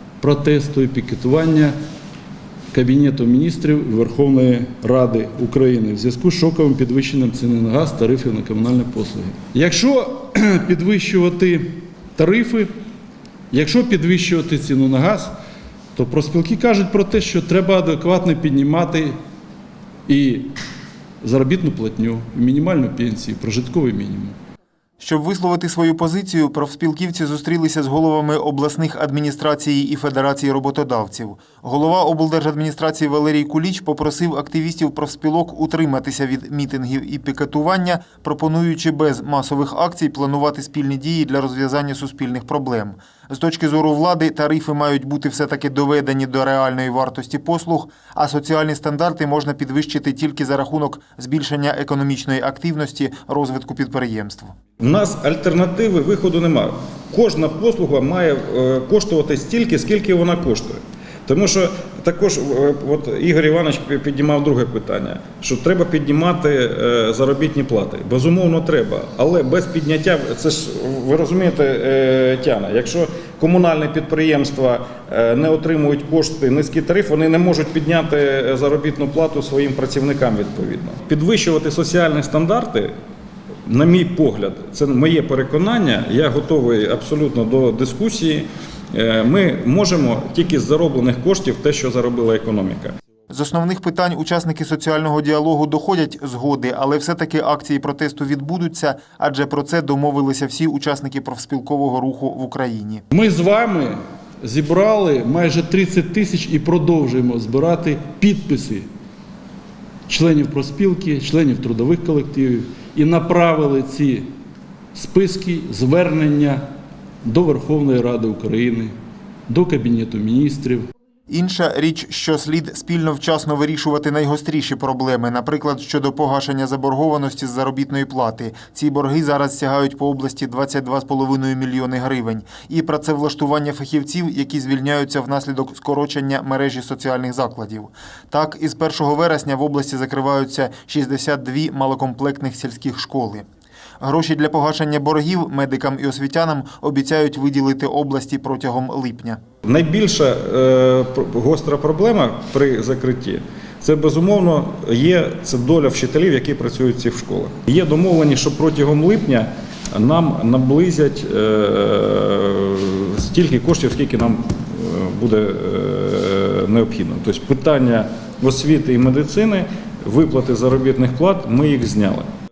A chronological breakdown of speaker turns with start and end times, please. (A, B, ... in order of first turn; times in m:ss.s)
0:00.2-0:01.7 A
0:02.7-0:12.7 A
0:13.5-0:15.3 A
0:16.0-0:19.1 A
0:20.1-0:20.5 A
0:21.2-0:24.4 A
0:25.0-0:54.5 B
0:54.8-1:22.9 C
1:23.7-1:32.9 C
1:33.3-1:43.1 B
1:43.1-1:48.9 A
1:50.1-1:54.2 A
1:54.9-1:56.6 A
1:57.2-1:58.9 A
1:59.5-2:00.9 A
2:01.3-2:23.5 B
2:24.0-2:29.4 B
2:29.6-2:52.3 C